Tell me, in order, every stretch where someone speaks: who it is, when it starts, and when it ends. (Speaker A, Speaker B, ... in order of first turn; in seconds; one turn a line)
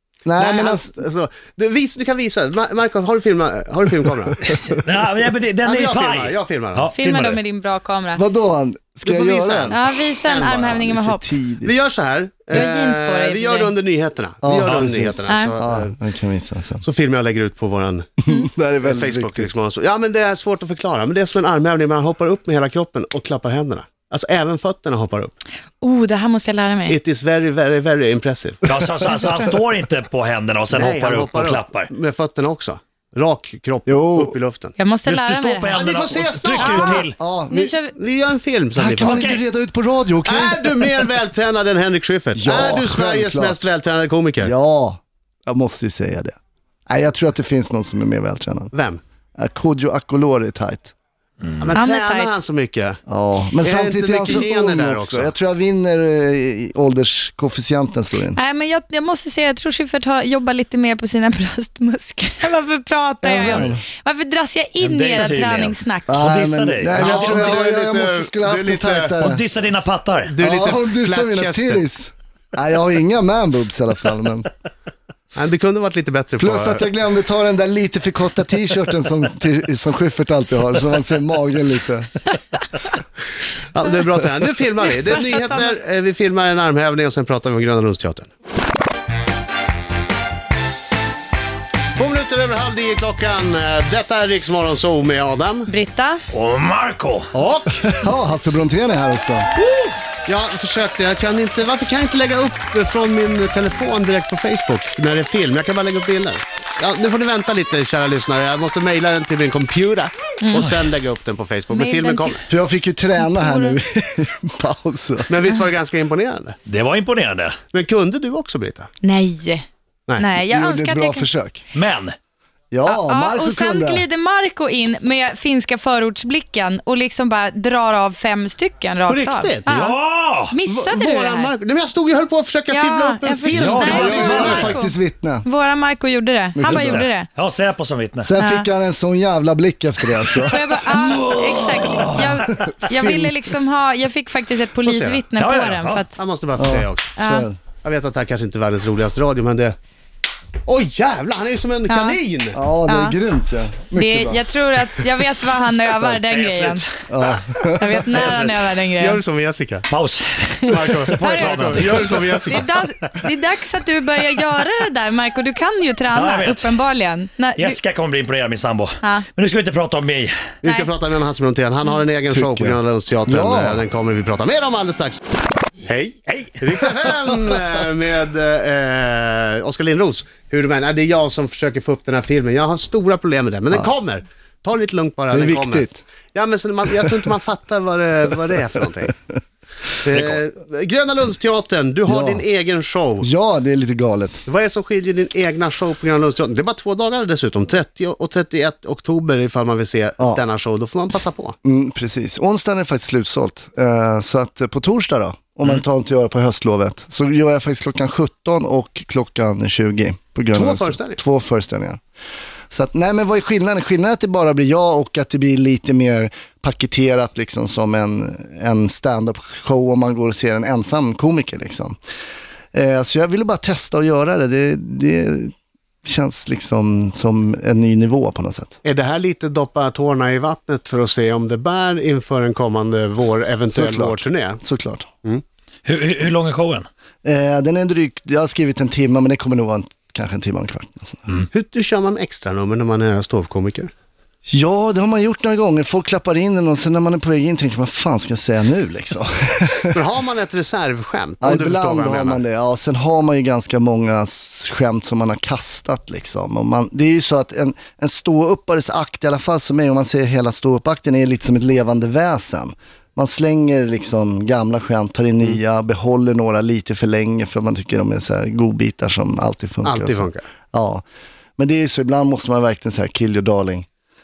Speaker A: 0.2-0.9
Speaker B: 0.4-4.7
Speaker C: 4.7-7.4
Speaker B: 5.6-6.9
Speaker D: 7.0-8.2
Speaker A: 8.2-9.8
Speaker B: 9.1-10.8
Speaker D: 9.7-11.2
Speaker A: 10.6-11.7
Speaker B: 11.6-15.9
Speaker D: 12.5-13.7
Speaker A: 14.4-16.8
Speaker D: 15.3-15.5
Speaker B: 16.8-18.2
Speaker A: 18.2-19.5
Speaker B: 18.8-25.4
Speaker D: 25.8-27.0
Speaker B: 26.9-28.8
Speaker C: 28.6-31.9
Speaker B: 30.7-34.8
Speaker A: 33.9-34.4
Speaker D: 34.8-35.8
Speaker C: 35.1-37.2
Speaker B: 35.7-37.1
Speaker A: 36.6-37.7
Speaker D: 37.5-37.9
Speaker B: 38.0-39.4
Speaker A: 38.8-41.0
Speaker C: 38.8-39.4
Speaker B: 40.2-44.5
Speaker A: 42.4-43.6
Speaker A: 44.4-46.4
Speaker A: 46.9-48.7
Speaker B: 48.7-49.0
Speaker A: 49.4-50.9
Speaker B: 51.6-53.0
Speaker D: 51.7-52.3
Speaker A: 53.1-58.4
Speaker B: 53.6-55.3
Speaker D: 58.4-66.2
Speaker A: 63.2-63.8
Speaker C: 64.8-67.5
Speaker A: 66.1-69.5
Speaker B: 66.9-69.2
Speaker C: 69.2-70.3
Speaker B: 70.2-71.8
Speaker A: 70.4-74.5
Speaker B: 75.3-76.8
Speaker A: 76.4-82.1
Speaker B: 83.7-88.3
Speaker B: 92.0-95.7
Speaker D: 95.7-96.2
Speaker C: 96.3-97.3
Speaker B: 97.3-98.0
Speaker A: 97.8-99.5
Speaker C: 99.6-100.0
Speaker B: 100.3-112.5
Speaker D: 110.4-110.7
Speaker D: 111.7-112.4
Speaker A: 112.5-115.4
Speaker D: 113.2-113.8
Speaker B: 115.3-116.6
Speaker C: 116.7-117.6
Speaker B: 117.7-118.9
Speaker D: 119.0-119.7
Speaker D: 120.2-121.3
Speaker A: 120.4-121.6
Speaker C: 121.7-122.2
Speaker A: 122.7-124.0
Speaker D: 122.9-130.0
Speaker B: 129.1-129.7
Speaker C: 129.7-130.6
Speaker D: 130.5-131.5
Speaker B: 130.7-134.7
Speaker D: 132.7-134.9
Speaker C: 133.5-134.7
Speaker A: 133.8-135.4
Speaker D: 135.4-137.3
Speaker A: 136.6-137.0
Speaker C: 136.7-138.3
Speaker A: 138.2-143.4
Speaker D: 138.4-138.7
Speaker D: 140.4-146.2
Speaker C: 141.9-142.2
Speaker B: 144.8-145.2
Speaker C: 145.4-146.1
Speaker B: 146.2-147.1
Speaker A: 146.6-147.6
Speaker D: 147.2-147.5
Speaker B: 147.8-149.8
Speaker B: 150.7-152.6
Speaker D: 151.9-152.2
Speaker A: 152.5-154.5
Speaker D: 152.9-153.2
Speaker D: 153.9-156.8
Speaker C: 156.0-156.8
Speaker A: 157.1-158.0
Speaker D: 157.8-159.2
Speaker B: 158.1-159.9
Speaker C: 158.1-158.6
Speaker C: 159.9-162.7
Speaker D: 160.6-167.8
Speaker B: 160.7-162.7
Speaker C: 166.1-166.8
Speaker C: 167.6-170.5
Speaker B: 170.6-175.2
Speaker A: 172.3-173.8
Speaker B: 175.8-189.2
Speaker C: 176.3-176.7
Speaker A: 185.3-186.0
Speaker B: 190.0-193.3
Speaker C: 190.1-190.4
Speaker A: 192.1-192.4
Speaker A: 193.2-194.4
Speaker B: 194.5-201.6
Speaker A: 201.6-212.0
Speaker B: 210.5-211.2
Speaker A: 212.7-222.0
Speaker A: 222.7-228.8
Speaker B: 228.8-234.6
Speaker A: 233.7-235.1
Speaker C: 235.9-236.9
Speaker A: 237.2-241.4
Speaker B: 241.5-243.9
Speaker A: 244.5-250.0
Speaker B: 249.9-252.4
Speaker A: 251.4-271.0
Speaker B: 269.8-270.4
Speaker A: 271.6-273.9